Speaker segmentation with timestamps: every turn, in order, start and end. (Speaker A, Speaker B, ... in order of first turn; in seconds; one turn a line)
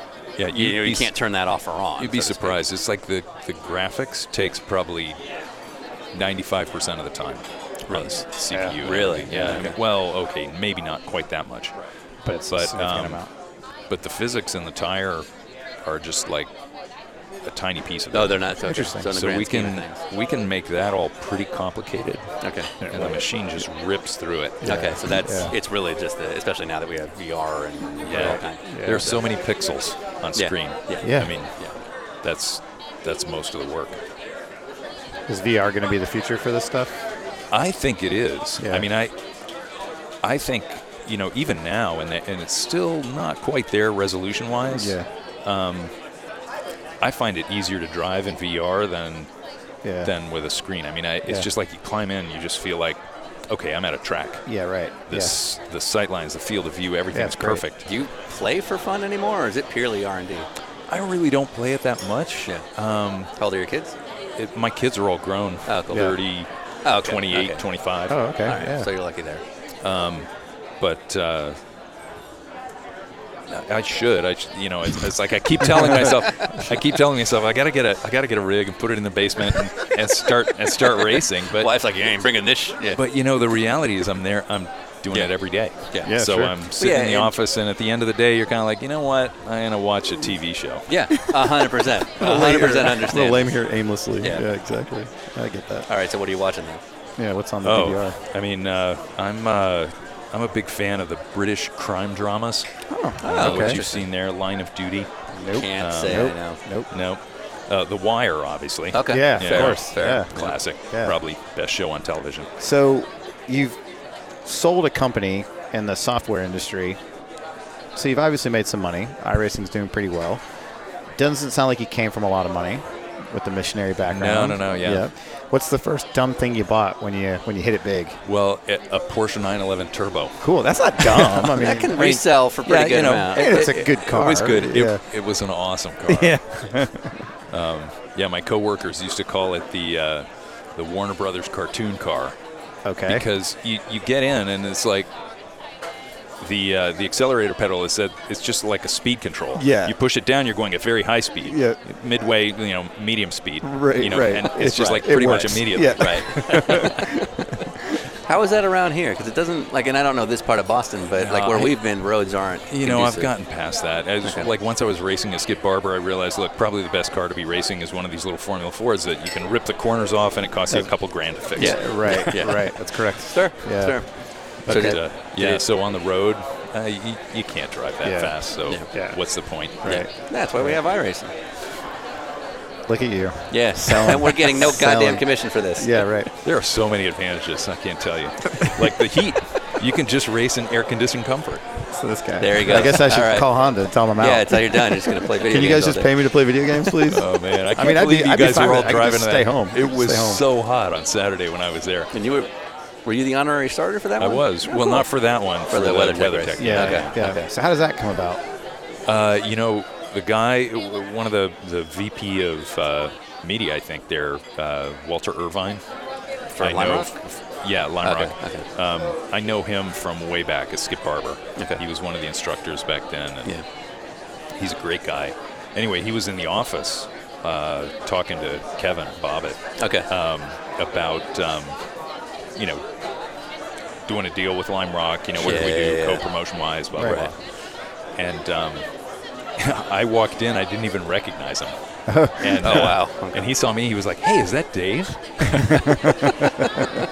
Speaker A: 0.4-1.1
Speaker B: 0.5-2.6
Speaker A: 2.0-5.2
Speaker A: 6.1-11.7
Speaker B: 7.9-8.2
Speaker C: 8.5-8.8
Speaker B: 8.8-9.8
Speaker C: 12.2-13.3
Speaker A: 12.5-13.2
Speaker A: 13.9-15.3
Speaker A: 15.8-16.5
Speaker A: 17.4-18.5
Speaker B: 18.1-20.0
Speaker C: 18.6-19.1
Speaker A: 19.0-24.8
Speaker B: 22.4-22.7
Speaker C: 22.8-23.2
Speaker C: 24.6-25.5
Speaker B: 24.6-29.2
Speaker A: 28.1-31.6
Speaker C: 28.6-29.1
Speaker B: 30.4-31.8
Speaker C: 31.0-31.3
Speaker A: 32.2-34.0
Speaker C: 35.3-37.0
Speaker A: 37.5-39.1
Speaker C: 38.6-38.9
Speaker A: 40.2-45.9
Speaker C: 44.7-45.1
Speaker A: 47.0-49.3
Speaker C: 49.8-50.1
Speaker A: 50.0-54.4
Speaker C: 54.5-55.4
Speaker A: 55.1-57.8
Speaker C: 57.1-57.6
Speaker B: 57.8-60.5
Speaker A: 60.9-63.3
Speaker B: 63.4-64.0
Speaker A: 64.4-66.5
Speaker B: 65.7-66.1
Speaker B: 66.8-67.6
Speaker A: 67.0-68.2
Speaker C: 68.1-68.9
Speaker B: 68.4-69.4
Speaker A: 69.8-70.3
Speaker A: 70.8-71.6
Speaker A: 73.5-81.7
Speaker B: 81.5-83.0
Speaker A: 82.9-90.8
Speaker C: 86.0-86.6
Speaker B: 86.8-87.3
Speaker B: 90.9-93.5
Speaker C: 92.2-95.9
Speaker B: 94.2-94.5
Speaker B: 95.9-96.8
Speaker C: 97.2-98.2
Speaker A: 97.6-102.7
Speaker C: 102.9-103.8
Speaker B: 103.2-104.0
Speaker A: 103.3-105.1
Speaker C: 105.3-106.9
Speaker B: 105.5-106.6
Speaker A: 105.8-106.3
Speaker A: 106.9-112.5
Speaker B: 108.9-110.5
Speaker C: 109.1-110.3
Speaker C: 110.9-111.2
Speaker C: 112.6-113.8
Speaker C: 114.4-117.0
Speaker C: 117.9-120.4
Speaker C: 121.1-128.2
Speaker A: 124.0-125.1
Speaker A: 128.2-130.4
Speaker C: 130.4-132.2
Speaker A: 131.0-136.4
Speaker B: 131.5-133.7
Speaker C: 133.3-135.0
Speaker C: 136.1-137.3
Speaker A: 137.5-142.3
Speaker C: 142.8-143.2
Speaker A: 143.1-145.1
Speaker A: 146.4-156.7
Speaker C: 149.6-149.9
Speaker C: 151.4-151.8
Speaker C: 153.6-157.9
Speaker B: 155.2-157.0
Speaker B: 158.2-163.3
Speaker A: 161.2-161.8
Speaker A: 162.7-172.2
Speaker B: 164.2-164.5
Speaker C: 171.5-174.0
Speaker B: 171.6-174.1
Speaker C: 174.6-175.0
Speaker B: 174.6-175.6
Speaker A: 174.7-180.0
Speaker C: 178.0-178.3
Speaker C: 178.9-179.2
Speaker C: 179.8-180.8
Speaker B: 179.8-181.3
Speaker C: 182.9-185.2
Speaker B: 183.5-186.0
Speaker C: 185.8-186.3
Speaker A: 186.4-191.8
Speaker C: 191.9-200.4
Speaker B: 192.4-193.5
Speaker B: 194.2-196.1
Speaker A: 197.1-202.1
Speaker B: 202.1-202.5
Speaker B: 203.0-205.0
Speaker A: 204.2-207.1
Speaker B: 205.7-207.5
Speaker C: 206.6-208.4
Speaker A: 209.1-215.8
Speaker B: 216.5-217.2
Speaker A: 216.6-223.6
Speaker B: 218.0-218.7
Speaker A: 224.5-231.8
Speaker B: 229.8-230.1
Speaker A: 232.6-232.8
Speaker A: 234.1-237.5
Speaker B: 235.4-236.2
Speaker C: 236.9-237.2
Speaker B: 237.0-237.3
Speaker A: 238.2-238.8
Speaker A: 239.6-246.5
Speaker C: 242.1-242.9
Speaker B: 242.6-243.5
Speaker C: 245.6-246.9